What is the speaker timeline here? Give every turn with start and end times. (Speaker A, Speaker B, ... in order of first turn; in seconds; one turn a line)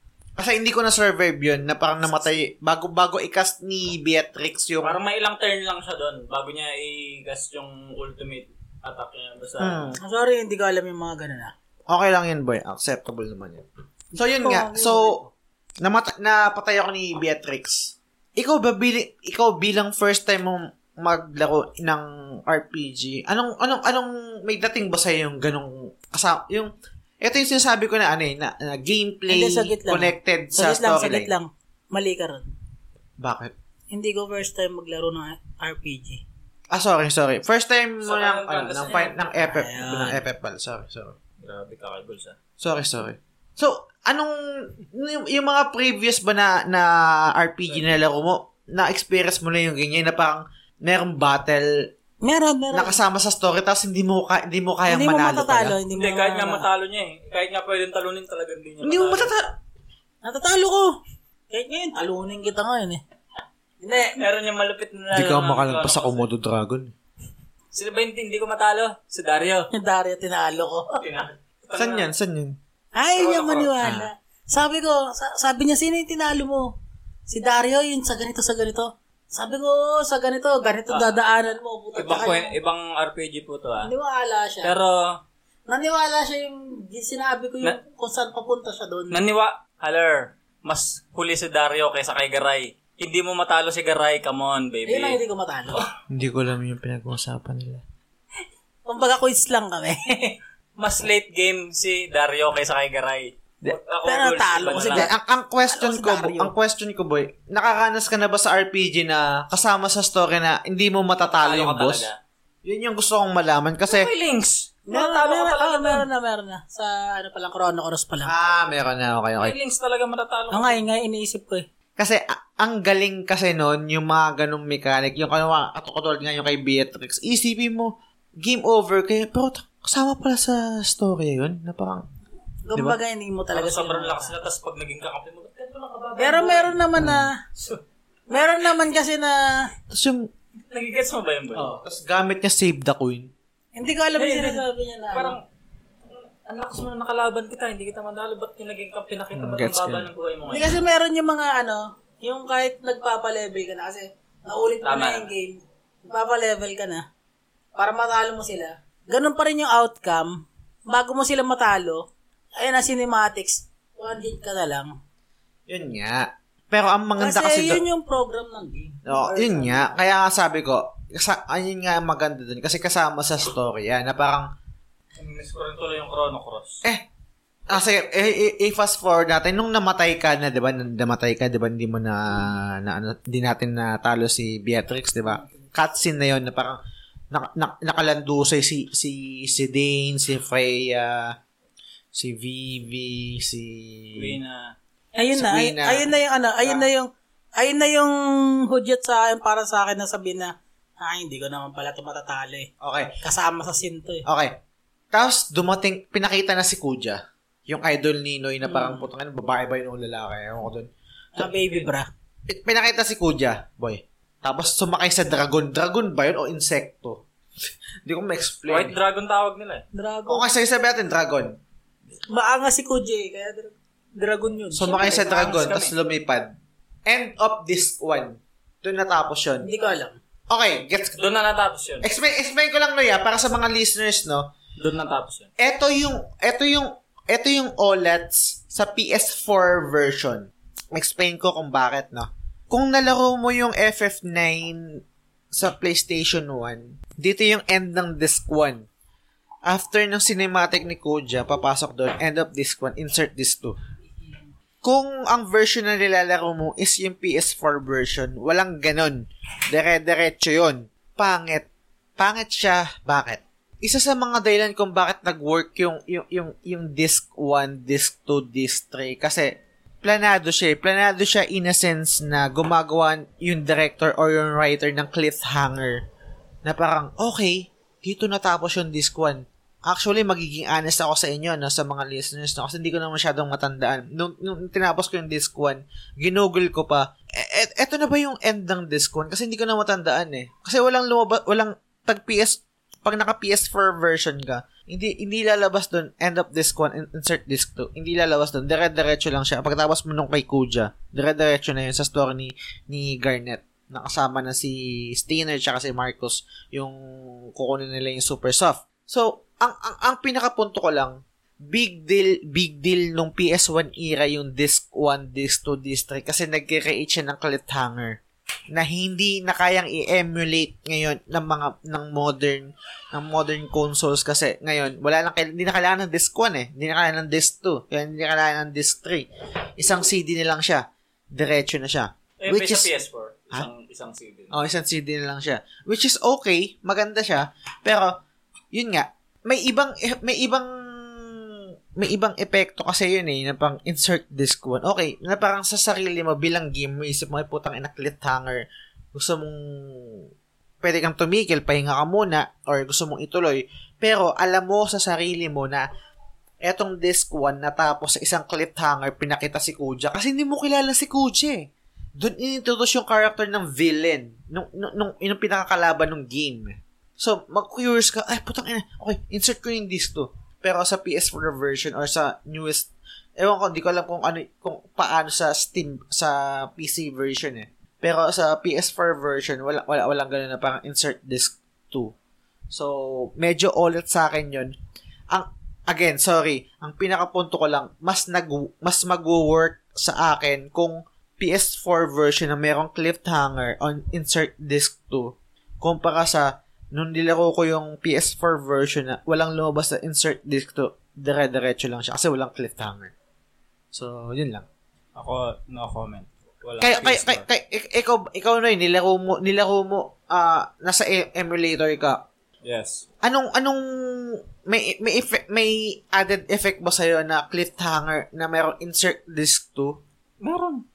Speaker A: 0.4-5.0
Speaker B: 4.8-9.9
Speaker A: 9.6-10.0
Speaker C: 10.0-11.5
Speaker A: 11.9-13.6
Speaker A: 14.2-15.2
Speaker C: 14.2-15.3
Speaker A: 15.8-31.3
Speaker C: 29.3-32.4
Speaker A: 33.2-33.5
Speaker C: 33.9-36.2
Speaker A: 36.7-41.2
Speaker B: 38.0-39.1
Speaker C: 39.3-40.2
Speaker B: 41.4-42.4
Speaker A: 42.6-51.9
Speaker C: 52.2-53.0
Speaker A: 52.7-55.8
Speaker C: 54.9-56.6
Speaker B: 55.9-59.3
Speaker A: 58.8-59.5
Speaker C: 60.2-60.9
Speaker C: 61.5-63.0
Speaker C: 63.8-64.2
Speaker B: 64.0-66.3
Speaker A: 65.1-66.9
Speaker B: 67.7-69.7
Speaker C: 69.7-71.0
Speaker B: 71.0-72.1
Speaker A: 71.8-72.6
Speaker C: 72.9-76.7
Speaker B: 73.2-73.9
Speaker A: 73.8-74.1
Speaker C: 77.3-82.5
Speaker B: 80.9-81.2
Speaker B: 82.0-83.9
Speaker C: 83.8-84.8
Speaker B: 84.6-85.2
Speaker C: 85.7-89.2
Speaker B: 89.1-95.2
Speaker C: 94.9-95.8
Speaker A: 96.1-97.8
Speaker C: 98.8-100.4
Speaker B: 100.8-105.1
Speaker C: 104.0-105.1
Speaker A: 104.8-112.1
Speaker C: 105.7-106.5
Speaker B: 111.4-112.2
Speaker A: 112.6-114.1
Speaker B: 113.9-116.0
Speaker C: 114.9-118.3
Speaker A: 118.2-119.5
Speaker B: 119.4-120.8
Speaker C: 120.5-121.7
Speaker A: 122.0-132.0
Speaker C: 132.7-134.3
Speaker B: 133.5-136.8
Speaker C: 136.2-137.3
Speaker A: 137.0-137.3
Speaker C: 138.3-139.7
Speaker A: 139.9-140.3
Speaker B: 140.7-141.7
Speaker A: 141.5-143.3
Speaker C: 143.8-145.4
Speaker B: 144.2-145.4
Speaker B: 146.4-150.8
Speaker A: 149.3-150.1
Speaker C: 150.5-157.1
Speaker B: 154.8-155.3
Speaker C: 157.8-162.0
Speaker C: 162.6-165.0
Speaker A: 165.7-167.8
Speaker C: 167.2-169.9
Speaker A: 169.0-174.5
Speaker B: 175.2-176.8
Speaker A: 177.7-186.8
Speaker A: 187.3-191.3
Speaker A: 192.1-194.3
Speaker B: 194.2-194.7
Speaker C: 195.1-202.7
Speaker A: 195.3-196.1
Speaker A: 202.8-203.2
Speaker C: 203.2-204.2
Speaker A: 204.2-204.6
Speaker A: 205.1-210.9
Speaker C: 208.6-209.1
Speaker C: 211.3-212.1
Speaker A: 212.5-217.2
Speaker A: 218.0-219.0
Speaker B: 218.7-219.8
Speaker C: 219.9-220.5
Speaker A: 220.3-221.6
Speaker C: 222.3-225.7
Speaker A: 224.7-226.5
Speaker B: 224.9-225.9
Speaker A: 227.1-229.7
Speaker C: 229.6-230.2
Speaker A: 230.5-231.2
Speaker B: 231.1-232.1
Speaker A: 232.0-234.5
Speaker B: 234.8-235.5
Speaker A: 235.6-248.9
Speaker A: 249.6-253.8
Speaker C: 254.1-254.5
Speaker A: 254.8-261.7
Speaker A: 262.2-276.0
Speaker A: 276.6-307.0
Speaker A: 307.5-318.2
Speaker A: 318.7-332.9
Speaker B: 332.4-334.6
Speaker A: 334.5-338.2
Speaker A: 338.7-350.3
Speaker A: 350.8-355.9
Speaker A: 356.6-382.1
Speaker A: 382.7-384.7
Speaker A: 385.3-403.1
Speaker A: 403.9-404.6
Speaker B: 405.1-407.4
Speaker A: 406.8-412.2
Speaker B: 412.6-413.0
Speaker A: 413.2-420.0
Speaker B: 420.4-420.8